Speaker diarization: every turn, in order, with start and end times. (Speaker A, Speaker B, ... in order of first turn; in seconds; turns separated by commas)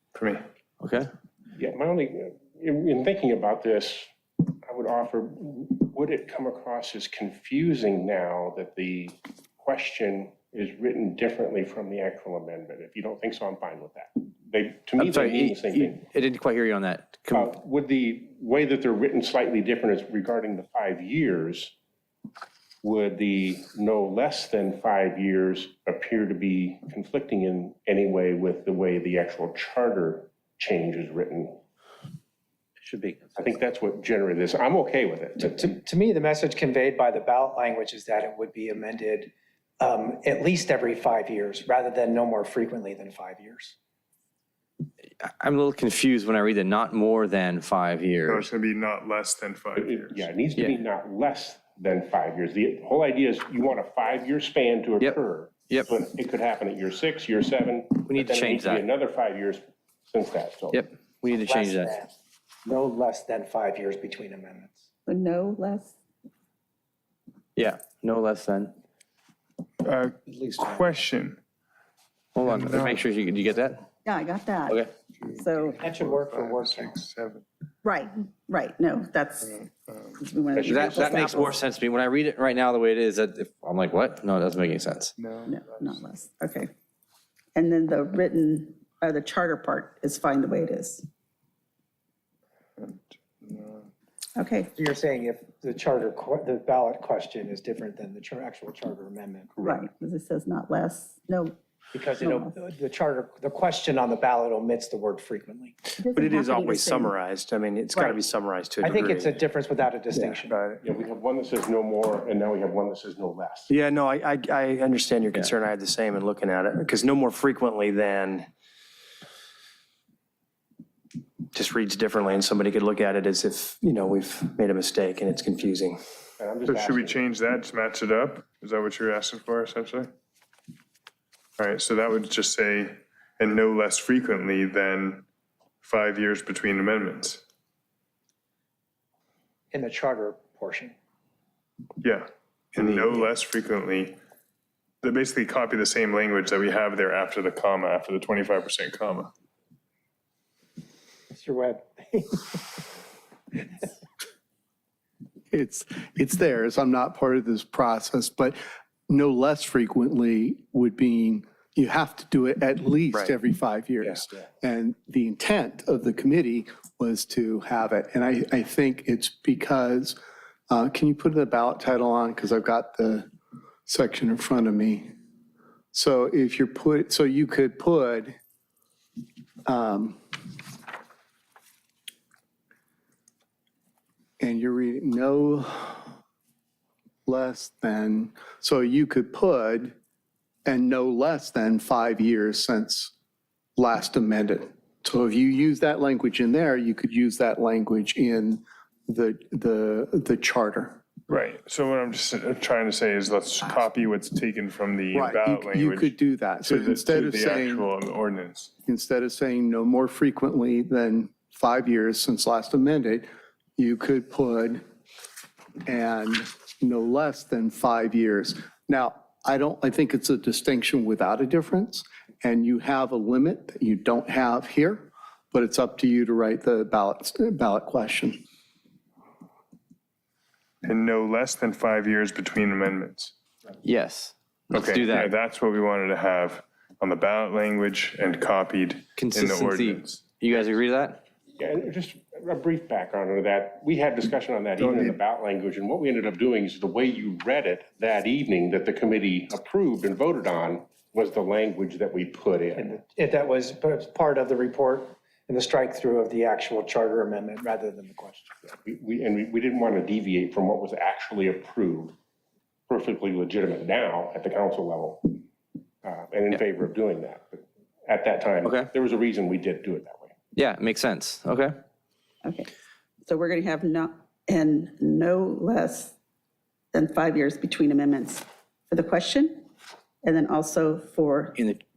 Speaker A: 0.1-0.4, Speaker B: 1.6-4.1, Speaker B: 4.6-16.1, Speaker C: 15.0-17.4, Speaker B: 17.3-21.7, Speaker B: 22.8-31.6, Speaker D: 32.9-33.3, Speaker B: 33.4-35.8, Speaker E: 35.4-43.8, Speaker C: 45.2-48.5, Speaker A: 48.3-50.3, Speaker B: 49.8-60.8, Speaker C: 58.1-58.9, Speaker E: 61.4-62.1, Speaker C: 61.4-61.9, Speaker E: 62.6-64.8, Speaker F: 65.1-66.0, Speaker C: 67.6-68.7, Speaker A: 69.8-71.4, Speaker E: 70.3-71.0, Speaker C: 72.3-73.8, Speaker A: 72.4-73.1, Speaker F: 74.0-75.8, Speaker A: 75.2-77.5, Speaker E: 75.8-76.9, Speaker F: 77.8-79.6, Speaker A: 79.4-80.2, Speaker F: 80.2-81.6, Speaker B: 80.6-81.5, Speaker C: 80.7-85.1, Speaker A: 85.2-86.0, Speaker F: 85.5-86.7, Speaker F: 87.5-91.0, Speaker A: 92.8-93.9, Speaker F: 94.4-94.7, Speaker E: 94.8-99.8, Speaker F: 99.6-101.6, Speaker E: 101.9-105.8, Speaker F: 102.2-102.5, Speaker F: 106.0-107.2, Speaker D: 106.2-107.3, Speaker G: 107.2-109.1, Speaker E: 107.9-108.2, Speaker D: 108.0-109.2, Speaker E: 108.8-110.7, Speaker A: 110.5-110.8, Speaker B: 110.8-113.7, Speaker G: 113.7-118.3, Speaker D: 114.5-116.7, Speaker D: 118.1-118.4, Speaker G: 121.6-125.9, Speaker D: 123.6-123.9, Speaker B: 126.4-127.2, Speaker A: 126.7-130.1, Speaker A: 131.6-135.3, Speaker A: 135.8-137.4, Speaker E: 139.7-140.9, Speaker A: 142.0-144.2, Speaker A: 145.0-149.3, Speaker E: 151.3-152.9, Speaker E: 153.6-153.9, Speaker H: 155.5-158.6, Speaker H: 159.1-170.2, Speaker H: 170.7-173.3, Speaker H: 173.9-175.1, Speaker H: 175.9-178.4, Speaker H: 179.7-180.2, Speaker H: 184.4-186.1, Speaker H: 187.3-189.9, Speaker H: 190.7-193.1, Speaker H: 193.8-201.0, Speaker A: 201.3-208.7, Speaker H: 205.1-207.9, Speaker H: 208.9-213.2, Speaker H: 213.8-214.8, Speaker H: 215.8-228.4, Speaker A: 230.8-233.3, Speaker C: 233.8-235.4, Speaker A: 234.7-240.3, Speaker C: 239.2-241.2, Speaker B: 241.6-253.0, Speaker A: 244.8-245.2, Speaker E: 252.8-258.6, Speaker B: 258.7-262.1, Speaker B: 262.9-265.4, Speaker B: 266.0-270.4, Speaker C: 270.6-271.7, Speaker F: 273.3-276.1, Speaker F: 276.9-279.6, Speaker F: 280.2-281.6